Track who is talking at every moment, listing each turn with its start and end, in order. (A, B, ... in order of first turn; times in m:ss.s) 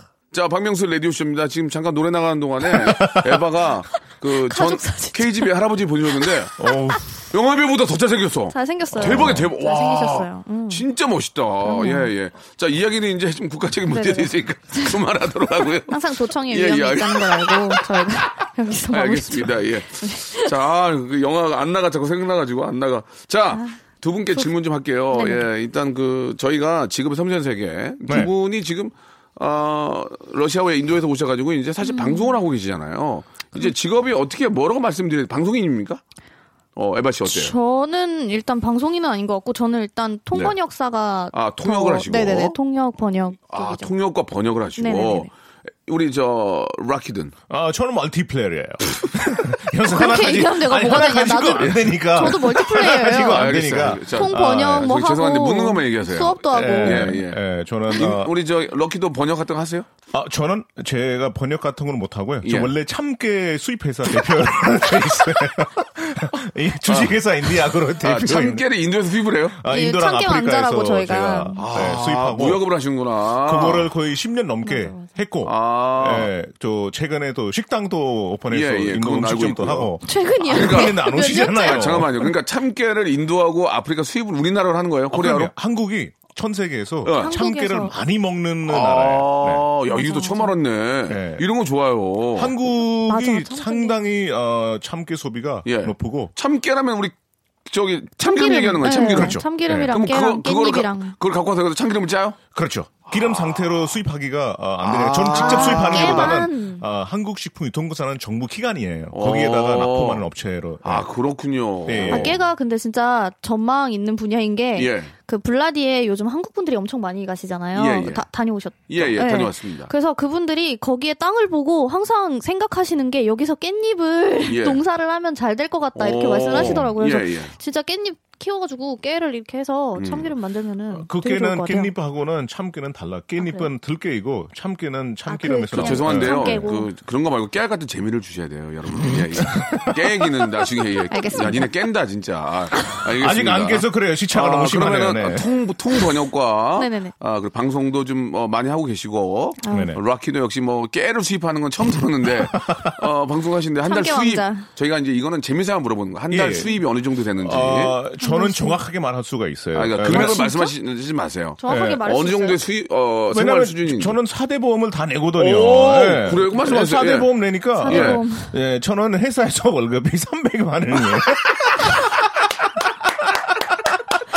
0:00.3-0:06.6 A
0:02.8-0:03.4 B
0:04.4-0:05.5 C
0:06.6-0:07.0 B
0:07.3-0:18.0 A
0:08.5-0:10.8 C
0:09.0-0:09.5 B
0:11.6-0:12.1 C
0:13.9-0:15.0 C
0:15.9-0:20.5 C
0:18.9-0:36.0 A
0:25.1-0:25.5 C
0:31.8-0:32.3 C
0:36.8-0:37.5 A
0:37.2-0:43.9 C
0:41.3-0:42.6 A
0:43.5-0:45.3 A
0:44.8-0:45.3 C
0:45.8-0:47.3 A
0:47.5-0:54.9 B
0:49.9-0:57.2 C
0:53.3-0:57.4 A
0:56.5-0:58.3 B
0:57.9-0:59.9 A
1:00.1-1:08.6 B
1:02.4-1:02.7 A
1:06.8-1:07.2 A
1:08.0-1:09.6 A
1:09.5-1:12.6 B
1:09.7-1:11.6 C
1:11.6-1:13.9 A
1:13.4-1:22.1 B
1:14.6-1:15.1 C
1:15.4-1:16.3 A
1:18.5-1:19.9 A
1:20.0-1:22.0 C
1:20.5-1:21.0 A
1:21.6-1:25.5 A
1:25.1-1:29.6 B
1:27.0-1:27.3 A
1:27.2-1:27.9 C
1:28.7-1:32.6 A
1:29.9-1:30.5 C
1:31.1-1:31.4 B
1:32.3-1:36.3 B
1:33.1-1:34.0 C
1:35.6-1:37.1 A
1:37.6-1:42.4 A
1:38.2-1:41.2 C
1:38.9-1:39.9 B
1:42.5-1:51.1 B
1:43.1-1:43.9 A
1:44.8-1:46.4 A
1:45.3-1:46.8 C
1:49.1-1:50.2 A
1:50.8-1:52.4 A
1:51.9-1:52.4 B
1:52.1-2:11.9 C
1:54.8-1:55.1 A
1:57.7-1:58.2 A
1:58.9-1:59.9 A
2:04.4-2:04.8 A
2:05.9-2:07.5 A
2:06.6-2:06.8 B
2:10.0-2:10.3 A
2:10.9-2:16.7 B
2:13.4-2:13.7 C
2:15.3-2:16.9 C
2:15.8-2:38.0 A
2:19.0-2:20.0 B
2:21.1-2:21.7 C
2:22.8-2:23.0 C
2:23.2-2:25.5 B
2:26.8-2:27.1 C
2:29.6-2:29.9 C
2:29.7-2:30.0 B
2:32.5-2:32.9 B
2:33.8-2:34.6 C
2:36.3-2:36.7 B
2:37.4-2:40.4 B
2:38.2-2:38.8 C
2:39.7-2:44.2 A
2:40.1-2:40.7 C
2:41.6-2:42.6 C
2:41.7-2:42.0 B
2:43.3-2:54.0 B
2:45.4-2:47.3 A
2:47.8-2:48.5 C
2:47.9-2:48.2 A